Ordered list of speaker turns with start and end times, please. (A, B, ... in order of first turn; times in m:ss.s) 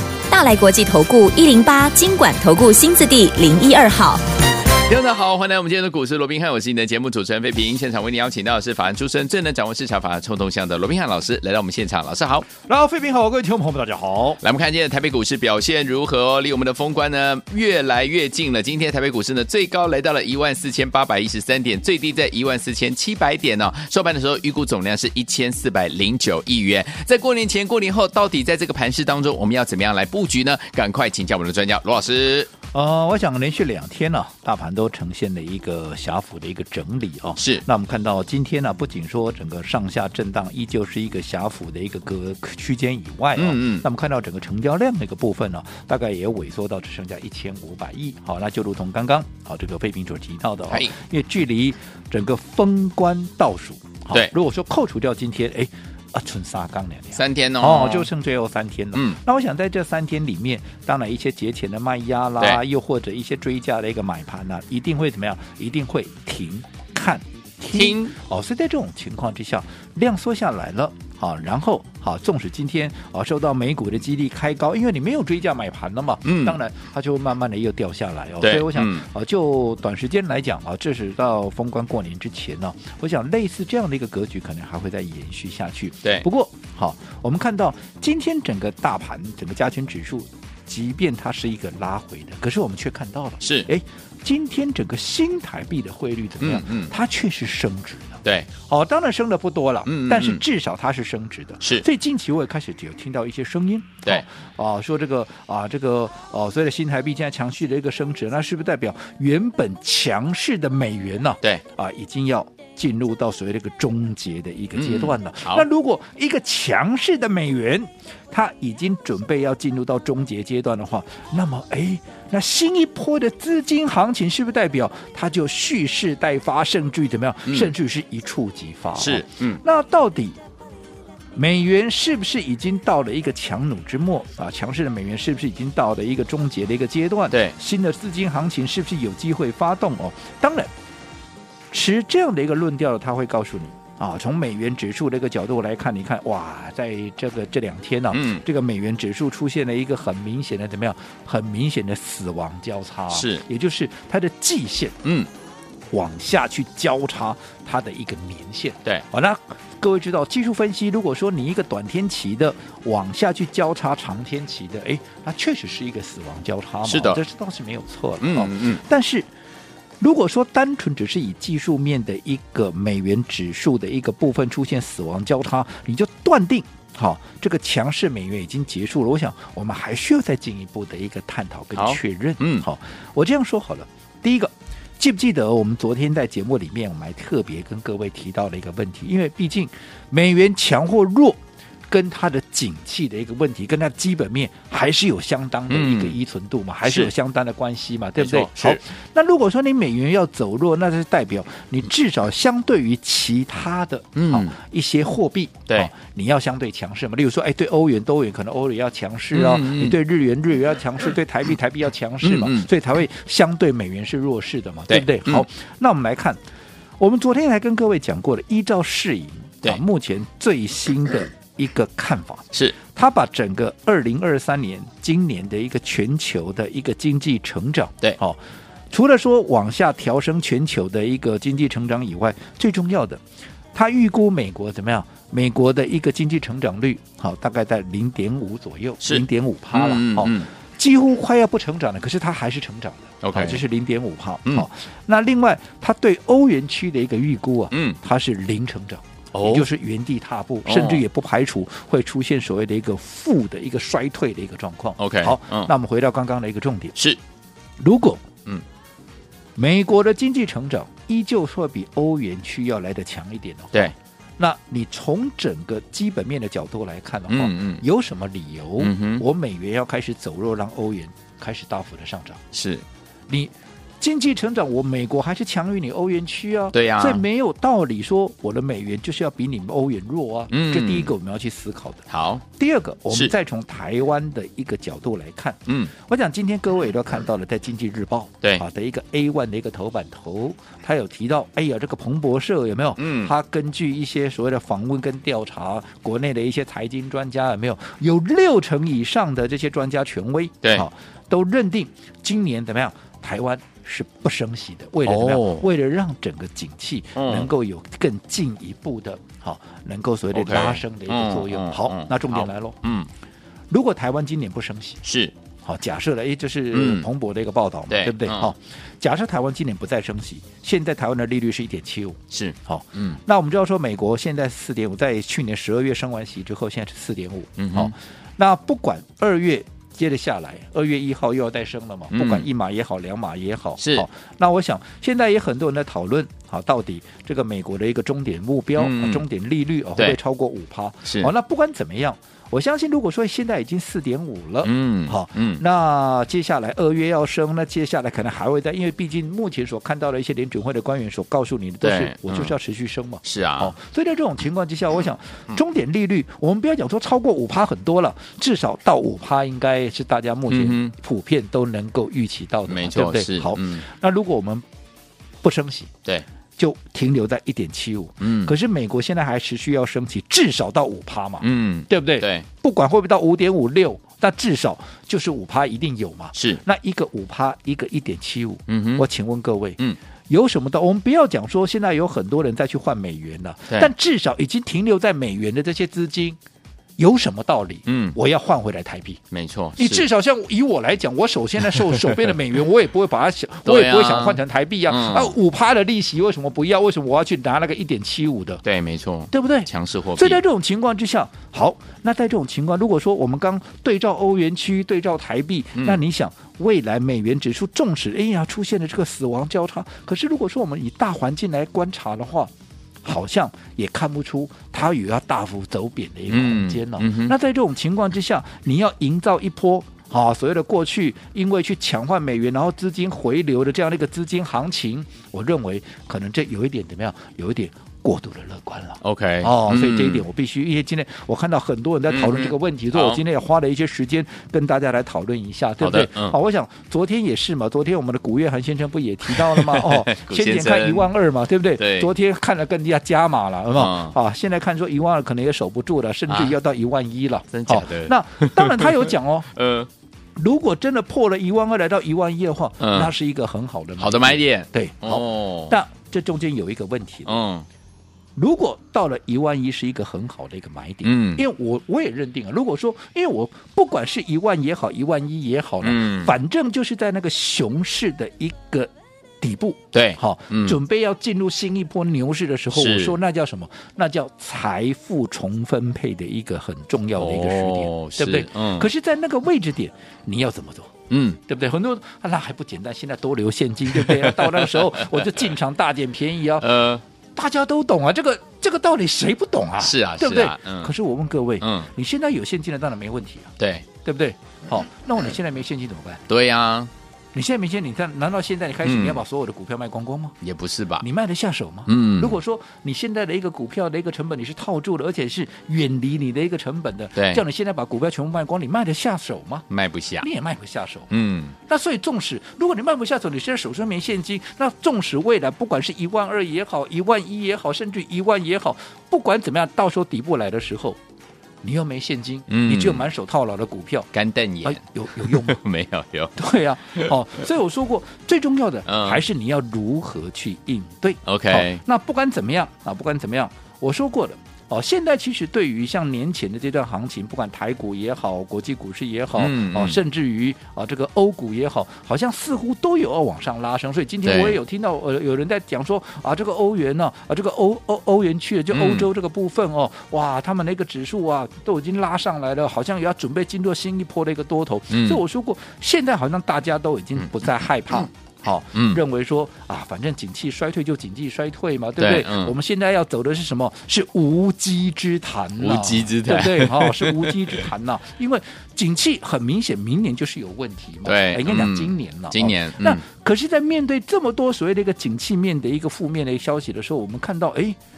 0:00.3-0:04.2 A
0:04.9-0:12.5 B
0:12.6-0:14.4 C
0:14.4-0:32.5 B
0:32.7-2:10.4 C
0:37.4-0:37.6 B
0:43.4-0:43.8 B
0:57.1-0:58.1 B
0:58.9-0:59.2 B
1:07.7-1:08.2 B
1:16.2-1:16.6 B
1:18.4-1:19.1 B
1:33.4-1:33.7 B
1:36.4-1:36.9 B
1:38.2-1:38.5 B
1:39.9-1:40.4 B
1:54.8-1:55.7 B
2:07.5-2:07.7 B
2:09.0-2:09.6 B
2:11.4-2:20.7 C
2:17.3-2:17.6 B
2:21.7-2:35.0 C
2:28.1-2:28.4 B
2:33.1-2:33.4 B
2:35.0-2:35.3 B
2:35.9-2:49.3 C
2:46.8-2:47.2 B
2:48.2-2:48.8 B
2:50.0-3:36.4 C
3:01.8-3:02.7 B
3:15.7-3:16.2 B
3:16.8-3:17.1 B
3:18.2-3:18.8 B
3:24.2-3:24.5 B
3:29.3-3:30.0 B
3:32.2-3:32.7 B
3:34.9-3:35.5 B
3:37.0-3:48.4 C
3:48.9-3:53.2 C
3:53.7-4:17.0 C
3:59.0-4:00.5 B
4:03.2-4:03.6 B
4:07.7-4:08.0 B
4:09.3-4:09.7 B
4:10.6-4:11.0 B
4:15.0-4:15.7 B
4:17.8-4:18.2 C
4:19.6-4:32.4 C
4:27.3-4:27.8 B
4:28.8-4:29.2 B
4:32.5-4:32.8 B
4:33.3-5:12.8 C
4:36.7-4:37.2 B
4:40.5-4:41.1 B
4:42.1-4:42.4 B
4:45.7-4:45.9 B
4:53.0-4:53.3 B
5:05.0-5:05.7 B
5:07.2-5:07.5 B
5:10.3-5:13.1 B
5:13.7-5:15.0 C
5:15.0-5:15.3 B
5:15.6-6:04.7 C
5:16.7-5:17.1 B
5:17.9-5:18.5 B
5:22.3-5:23.2 B
5:27.6-5:28.0 B
5:32.1-5:32.5 B
5:33.8-5:34.1 B
5:38.8-5:39.2 B
5:41.0-5:41.3 B
5:44.6-5:45.6 B
5:51.8-5:52.6 B
5:53.2-5:53.7 B
6:00.5-6:00.9 B
6:02.7-6:03.8 B
6:05.4-6:05.9 C
6:06.6-6:26.4 C
6:08.2-6:08.5 B
6:11.4-6:12.5 B
6:16.4-6:16.6 B
6:18.7-6:19.0 B
6:27.0-6:29.2 C
6:27.9-6:28.2 B
6:29.3-6:30.1 B
6:29.8-6:38.6 C
6:33.6-6:35.4 B
6:38.6-6:40.4 B
6:39.3-6:52.5 C
6:45.8-6:46.0 B
6:53.0-7:29.5 C
6:56.3-6:57.4 B
7:09.0-7:10.2 B
7:12.1-7:13.2 B
7:15.8-7:16.4 B
7:19.2-7:21.1 B
7:21.8-7:22.1 B
7:23.8-7:24.2 B
7:26.3-7:26.6 B
7:27.5-7:29.9 B
7:30.4-7:37.4 C
7:32.8-7:33.1 B
7:34.0-7:35.8 B
7:37.2-7:37.7 B
7:38.4-8:06.7 C
7:41.0-7:41.4 B
7:45.8-7:46.3 B
7:49.9-7:50.8 B
7:52.7-7:53.2 B
7:57.2-7:58.9 B
8:01.1-8:01.4 B
8:03.9-8:05.1 B
8:06.6-8:07.0 B
8:07.4-8:13.5 C
8:09.8-8:10.9 B
8:11.6-8:11.9 B
8:13.6-8:13.8 B
8:14.0-8:16.2 C
8:16.3-8:16.9 B
8:17.3-8:20.4 C
8:18.8-8:19.2 B
8:20.4-8:21.0 B
8:21.0-8:29.7 C
8:21.9-8:22.4 B
8:27.2-8:27.4 B
8:29.7-8:30.3 B
8:30.2-8:41.0 C
8:31.1-8:31.6 B
8:41.6-8:44.1 C
8:42.5-8:43.1 B
8:44.1-8:46.4 B
8:44.6-8:45.6 C
8:46.4-9:37.8 C
8:48.9-8:49.2 B
8:51.3-8:51.8 B
8:59.4-9:00.0 B
9:04.2-9:04.6 B
9:08.7-9:09.1 B
9:14.9-9:15.2 B
9:18.7-9:19.0 B
9:22.0-9:22.5 B
9:25.6-9:27.7 B
9:31.0-9:33.0 B